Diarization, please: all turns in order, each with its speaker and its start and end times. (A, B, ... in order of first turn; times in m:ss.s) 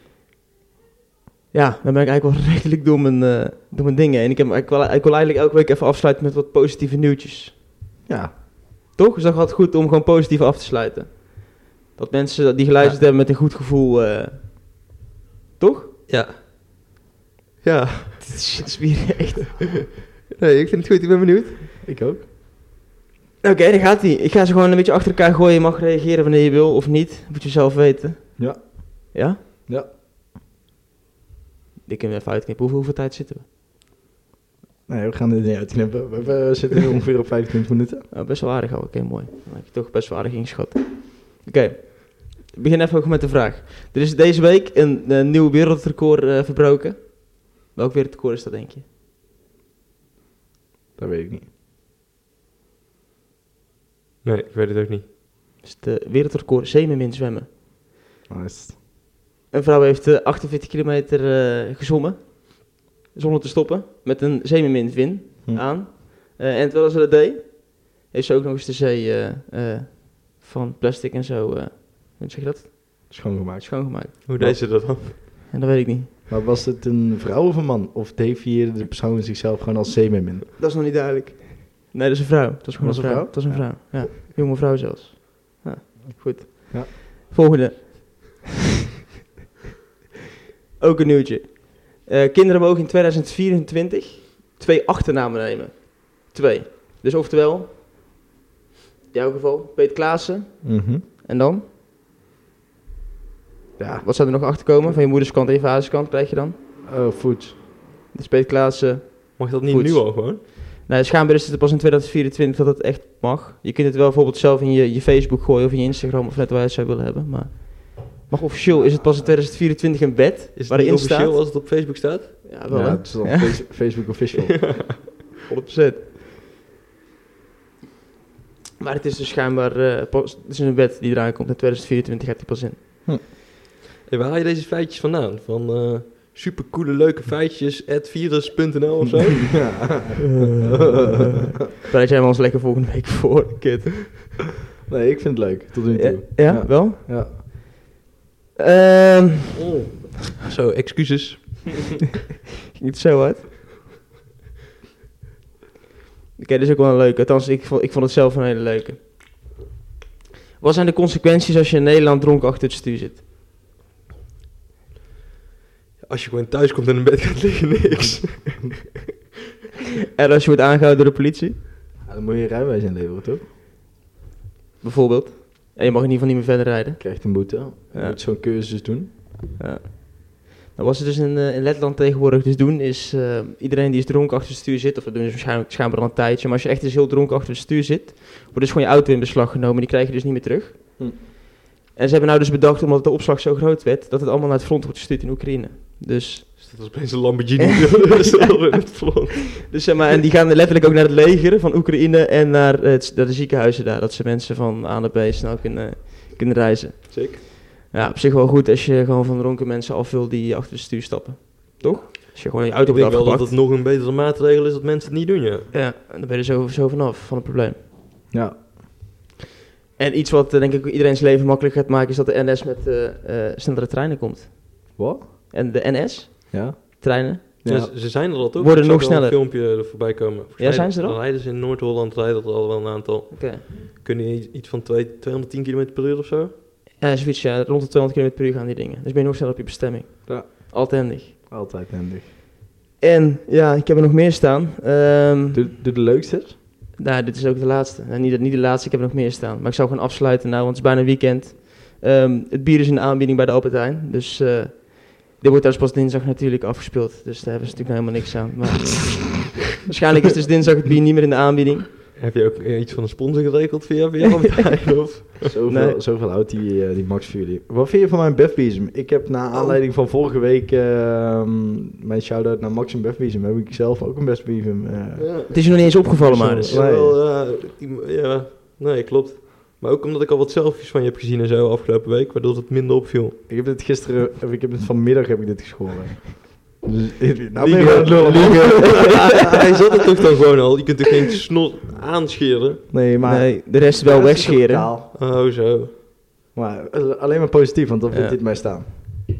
0:01.5-0:07.6 A
0:08.0-0:08.3 B
0:08.9-0:14.5 A
0:15.6-0:15.9 A
0:16.1-0:16.4 C
0:17.6-0:18.6 C
0:18.2-0:19.5 A
0:20.4-0:21.6 C
0:21.8-0:22.2 B
0:23.4-0:29.4 A
0:28.4-0:28.8 B
0:31.9-0:33.4 A
0:34.9-0:38.0 B
0:38.1-0:48.8 A
0:51.0-0:51.5 B
0:54.2-0:55.1 C
0:55.6-0:57.5 A
0:58.3-0:58.8 B
0:59.5-1:14.1 A
1:13.1-1:14.6 B
1:14.2-1:15.2 C
1:15.5-1:16.1 A
1:16.3-1:20.5 B
1:20.6-1:28.4 A
1:22.8-1:24.0 B
1:30.8-1:37.7 A
1:39.1-1:41.6 A
1:40.6-1:41.0 B
1:43.8-1:44.0 B
1:44.0-1:46.6 A
1:46.8-1:47.6 B
1:48.1-2:01.6 A
1:49.4-1:50.4 C
1:58.8-1:59.3 B
2:00.6-2:02.4 C
2:02.4-2:03.5 A
2:02.7-2:04.8 B
2:04.5-2:05.3 C
2:05.5-2:06.0 A
2:08.8-2:12.8 A
2:14.1-2:19.9 C
2:19.5-2:21.2 B
2:20.2-2:24.3 A
2:24.9-2:27.3 B
2:25.9-2:27.0 A
2:28.6-2:29.6 A
2:29.5-2:31.9 C
2:32.7-2:33.5 A
2:36.4-2:39.0 A
2:40.6-2:43.2 A
2:46.0-2:48.8 C
2:50.2-2:51.6 A
2:52.0-2:53.4 B
2:54.8-2:58.2 A
2:57.0-2:59.1 B
2:59.6-3:11.4 A
3:11.9-3:16.9 A
3:16.6-3:20.0 C
3:19.7-3:33.6 A
3:27.1-3:27.4 C
3:32.8-3:35.7 C
3:35.7-3:37.8 A
3:38.3-3:38.6 B
3:40.0-3:47.4 A
3:45.0-3:45.2 B
3:46.5-3:47.1 B
3:47.6-3:47.9 B
3:47.6-3:56.5 C
3:48.6-3:49.7 A
3:50.6-3:51.2 A
3:53.3-3:53.6 A
3:57.0-4:01.4 A
4:00.3-4:00.7 B
4:01.5-4:02.3 B
4:03.0-4:05.7 A
4:05.5-4:06.6 B
4:07.0-4:21.9 A
4:22.1-4:25.5 C
4:25.5-4:37.2 B
4:25.7-4:26.0 A
4:35.2-4:35.5 C
4:35.5-4:36.8 A
4:36.6-4:43.4 C
4:43.5-4:49.4 B
4:47.6-4:52.9 C
4:48.8-4:49.2 A
4:52.9-4:55.1 B
4:53.2-4:54.9 A
4:55.1-4:55.9 C
4:56.5-4:58.9 B
4:58.1-4:58.4 A